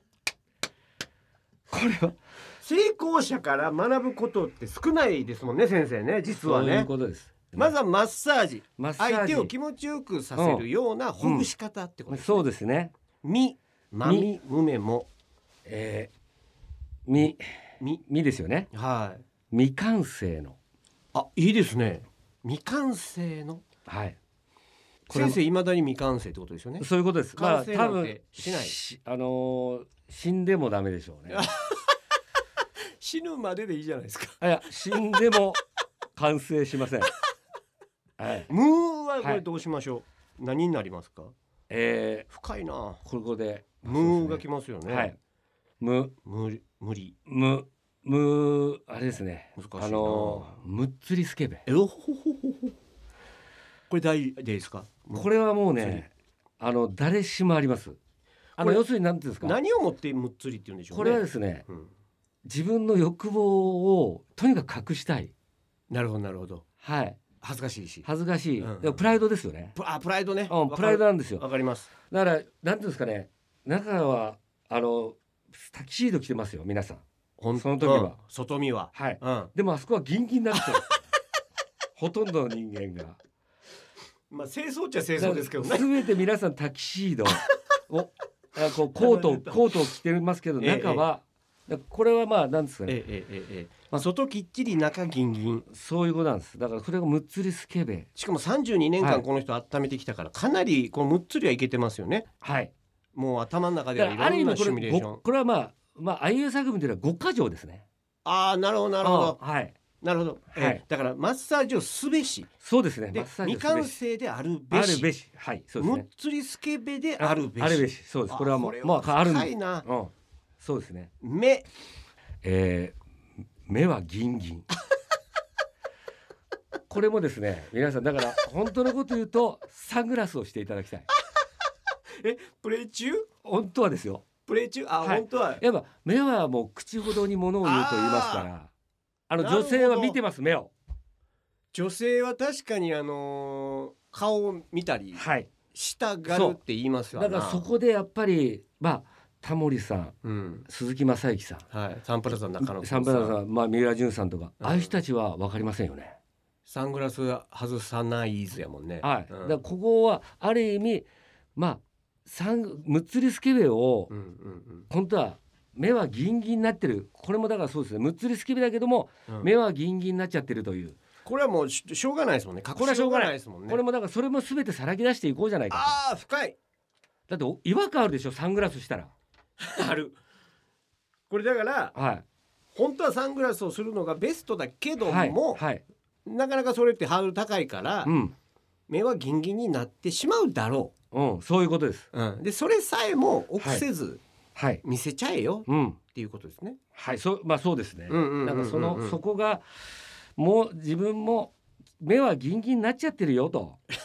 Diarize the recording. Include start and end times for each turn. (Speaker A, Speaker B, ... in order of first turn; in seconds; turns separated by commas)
Speaker A: 1.7-2.1, Speaker B: 2.6-6.9, Speaker A: 6.4-7.7, Speaker B: 7.5-12.4, Speaker A: 8.8-9.5, Speaker A: 10.3-10.6, Speaker A: 11.2-11.5, Speaker A: 12.1-12.9, Speaker B: 13.2-15.1, Speaker A: 15.7-16.1, Speaker A: 17.1-17.4, Speaker B: 17.2-18.0, Speaker A: 18.0-18.7, Speaker B: 18.7-19.2, Speaker A: 19.5-20.6, Speaker B: 21.1-23.6, Speaker A: 23.9-24.2, Speaker A: 25.1-25.4, Speaker B: 25.1-28.8, Speaker A: 26.8-31.5, Speaker B: 31.3-31.9, Speaker B: 33.0-34.5, Speaker A: 34.4-35.6, Speaker A: 36.1-37.1, Speaker A: 38.2-38.5, Speaker B: 38.5-41.3, Speaker A: 41.7-42.3, Speaker B: 42.3-43.0, Speaker A: 43.0-45.2, Speaker B: 43.8-45.1, Speaker A: 45.8-46.1, Speaker B: 46.2-47.1, Speaker A: 47.3-51.6, Speaker B: 49.6-50.5, Speaker B: 51.6-52.7, Speaker B: 53.9-56.0, Speaker A: 55.1-58.0, Speaker B: 58.6-58.8, Speaker A: 58.6-59.6, Speaker B: 59.4-61.9, Speaker A: 60.9-61.6, Speaker A: 62.4-65.3, Speaker B: 65.9-66.6, Speaker A: 66.8-67.2, Speaker B: 67.4-68.1, Speaker A: 68.0-69.8, Speaker B: 68.6-69.0, Speaker B: 69.7-71.9, Speaker A: 70.5-71.4, Speaker A: 72.0-77.0, Speaker B: 77.4-79.5, Speaker A: 77.5-78.2, Speaker A: 78.9-81.0, Speaker A: 82.0-83.2, Speaker B: 84.3-86.0, Speaker A: 85.2-93.0, Speaker B: 88.9-89.8, Speaker B: 90.6-91.0, Speaker B: 92.9-95.7, Speaker A: 95.7-98.1, Speaker B: 98.2-102.3, Speaker A: 102.4-102.7, Speaker B: 103.1-105.2, Speaker A: 104.0-107.8, Speaker B: 108.2-109.4, Speaker A: 109.0-109.8, Speaker B: 110.0-112.5, Speaker A: 110.5-110.8, Speaker A: 112.6-114.0, Speaker B: 113.1-115.1, Speaker A: 114.7-116.0, Speaker B: 115.8-119.8, Speaker A: 117.2-121.1, Speaker B: 121.2-121.7, Speaker A: 122.4-123.0, Speaker A: 123.7-124.7, Speaker A: 126.9-131.1, Speaker B: 132.2-133.3, Speaker A: 133.4-134.2, Speaker B: 134.4-135.6, Speaker A: 135.0-138.7, Speaker B: 137.6-138.5, Speaker A: 139.3-140.7, Speaker B: 139.4-140.2, Speaker B: 141.7-147.7, Speaker A: 145.1-145.5, Speaker A: 146.3-146.6, Speaker A: 147.1-150.1, Speaker B: 150.2-150.7, Speaker A: 150.7-151.6, Speaker B: 151.7-153.4, Speaker A: 152.6-156.2, Speaker B: 154.6-154.9, Speaker B: 156.7-159.6, Speaker A: 159.0-164.1, Speaker B: 164.1-164.9, Speaker A: 164.9-171.0, Speaker B: 171.2-173.8, Speaker A: 172.8-175.9, Speaker B: 175.7-176.6, Speaker A: 177.3-179.1, Speaker B: 179.6-180.2, Speaker B: 181.3-181.9, Speaker A: 181.9-182.2, Speaker B: 182.7-185.6, Speaker A: 185.0-185.8, Speaker B: 186.2-188.1, Speaker A: 188.0-188.3, Speaker B: 188.9-190.9, Speaker A: 191.1-192.1, Speaker B: 192.1-194.2, Speaker A: 193.6-193.8, Speaker A: 194.5-194.8, Speaker B: 194.8-196.8, Speaker A: 195.7-196.0, Speaker A: 196.9-199.6, Speaker B: 198.1-199.2, Speaker A: 200.3-203.8